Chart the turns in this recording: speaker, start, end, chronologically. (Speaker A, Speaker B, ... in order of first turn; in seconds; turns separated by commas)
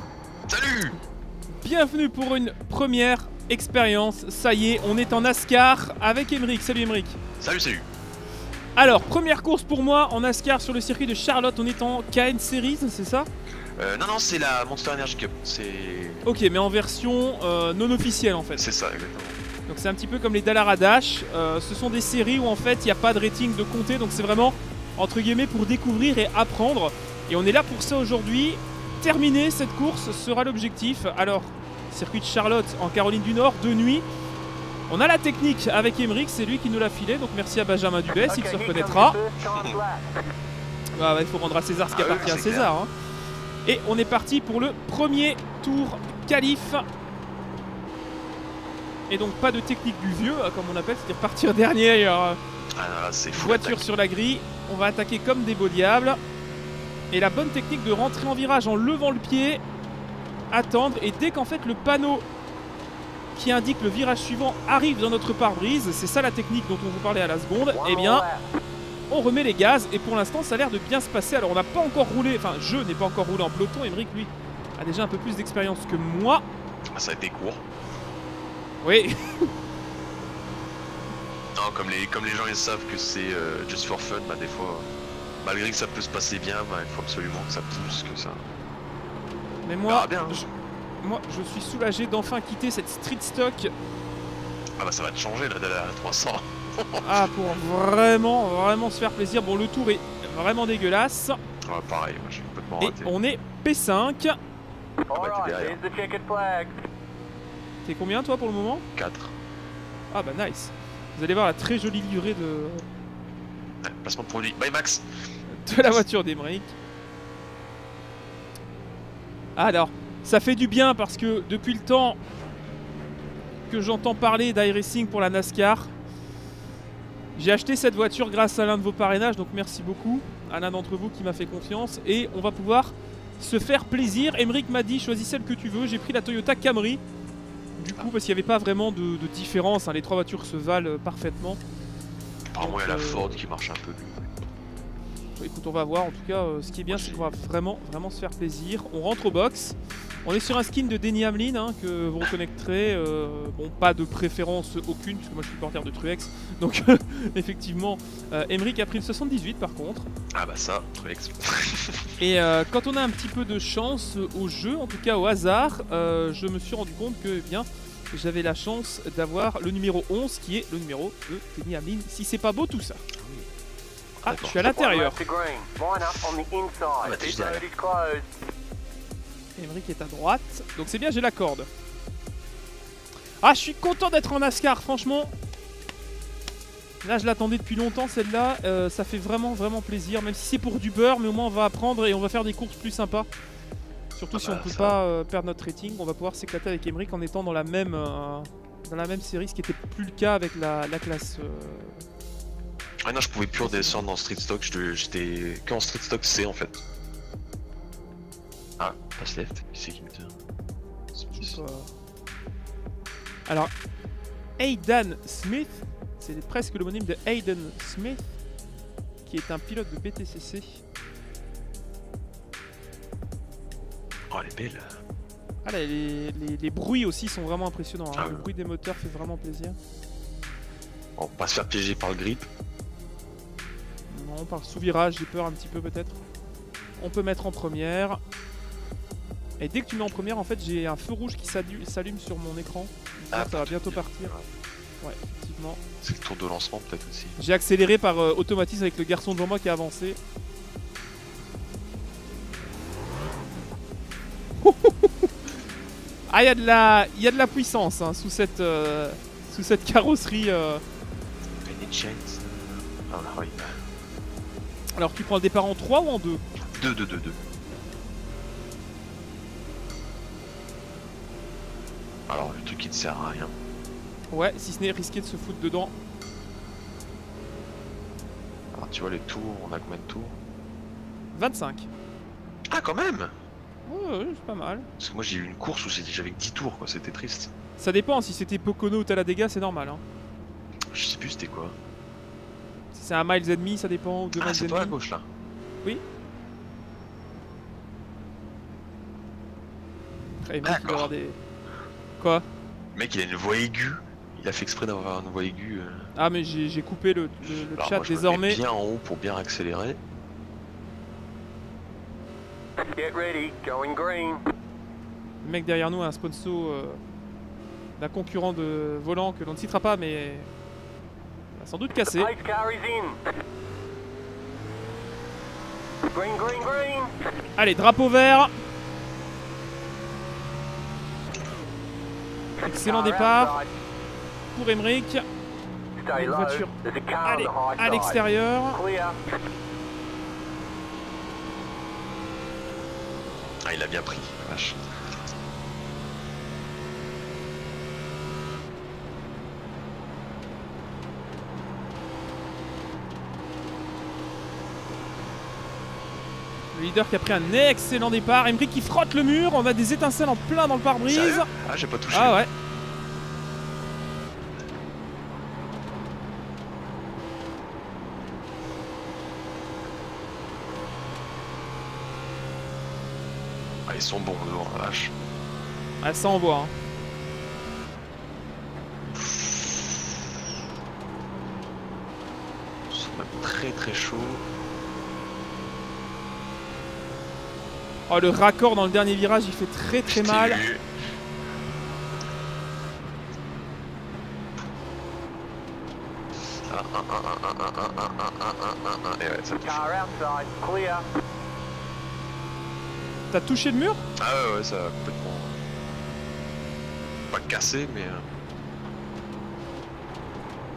Speaker A: 0.5-1.0, Speaker B: 1.6-7.2, Speaker A: 7.4-7.9, Speaker B: 8.8-13.3, Speaker A: 13.8-16.2, Speaker B: 16.2-18.6, Speaker A: 18.6-19.4, Speaker B: 19.7-34.0, Speaker B: 34.9-39.2, Speaker C: 38.2-40.1, Speaker B: 41.0-42.9, Speaker A: 41.9-42.7, Speaker B: 43.6-46.8, Speaker B: 49.1-52.4, Speaker A: 52.8-53.8, Speaker B: 53.3-56.2, Speaker B: 57.1-59.6, Speaker B: 60.5-62.2, Speaker B: 63.3-68.2, Speaker C: 67.6-68.4, Speaker B: 69.1-76.4, Speaker A: 76.9-77.6, Speaker B: 78.8-79.5, Speaker A: 81.5-84.9, Speaker A: 85.4-88.4, Speaker B: 89.6-90.5, Speaker A: 89.9-90.5, Speaker B: 91.0-93.7, Speaker A: 94.8-97.3, Speaker B: 97.0-101.4, Speaker A: 101.6-103.1, Speaker B: 102.8-104.4, Speaker C: 105.1-106.8, Speaker A: 105.1-105.8, Speaker B: 107.8-108.8, Speaker A: 109.0-109.3, Speaker B: 110.1-112.8, Speaker A: 113.8-115.1, Speaker B: 115.5-116.8, Speaker A: 115.8-116.0, Speaker B: 119.6-122.2, Speaker B: 123.7-125.9, Speaker B: 127.3-137.0, Speaker B: 137.8-141.6, Speaker A: 142.5-144.3, Speaker B: 142.6-143.4, Speaker B: 145.3-160.1, Speaker A: 146.9-147.3, Speaker A: 160.3-162.1, Speaker B: 162.2-173.0, Speaker A: 173.2-173.5, Speaker A: 174.2-174.7, Speaker B: 174.2-175.2, Speaker C: 174.5-178.2, Speaker A: 177.0-177.6, Speaker B: 179.6-181.7, Speaker B: 183.4-185.3, Speaker B: 187.0-193.3, Speaker B: 194.2-202.0, Speaker A: 194.3-195.0, Speaker A: 203.0-206.8, Speaker B: 203.6-204.0, Speaker A: 208.8-210.3, Speaker A: 211.1-211.6, Speaker B: 211.3-211.9, Speaker B: 214.6-218.2, Speaker B: 219.2-220.8, Speaker A: 224.3-224.9, Speaker B: 225.6-229.8, Speaker A: 228.2-228.5, Speaker A: 231.2-232.5, Speaker B: 234.1-236.2, Speaker B: 237.0-238.2, Speaker B: 239.6-244.3, Speaker A: 243.3-244.5, Speaker B: 245.0-245.8, Speaker A: 246.0-247.4, Speaker B: 247.4-250.2, Speaker B: 254.6-255.3, Speaker B: 256.3-260.8, Speaker A: 261.6-263.8, Speaker B: 265.0-266.4, Speaker A: 266.7-267.4, Speaker A: 272.3-273.5, Speaker B: 274.3-275.9, Speaker A: 278.7-280.4, Speaker B: 281.3-281.9, Speaker A: 282.7-283.3, Speaker B: 283.9-284.9, Speaker A: 285.0-287.5, Speaker B: 287.8-290.0, Speaker A: 290.9-291.8, Speaker B: 292.9-294.9, Speaker A: 294.4-295.2, Speaker B: 300.4-301.4, Speaker A: 300.6-301.1, Speaker B: 302.2-302.4, Speaker A: 302.9-306.1, Speaker B: 306.1-308.6, Speaker A: 307.4-310.0, Speaker C: 312.9-314.4, Speaker B: 315.4-317.0, Speaker B: 318.0-320.5, Speaker B: 321.6-322.3, Speaker C: 322.0-323.2, Speaker C: 326.1-327.1, Speaker B: 327.6-328.5, Speaker C: 332.6-333.7, Speaker B: 332.6-333.6, Speaker B: 334.5-335.2, Speaker C: 336.0-339.2, Speaker B: 336.1-336.7, Speaker B: 337.2-338.8, Speaker A: 343.6-344.8, Speaker B: 356.7-361.5, Speaker A: 361.1-362.4, Speaker B: 362.1-362.5, Speaker A: 373.9-375.1, Speaker B: 376.0-376.7, Speaker A: 379.1-380.3, Speaker A: 382.9-384.5, Speaker B: 388.1-390.6, Speaker A: 390.1-390.9, Speaker A: 396.7-399.9, Speaker C: 399.6-401.1, Speaker B: 403.3-404.0, Speaker A: 404.2-405.6, Speaker A: 407.3-408.3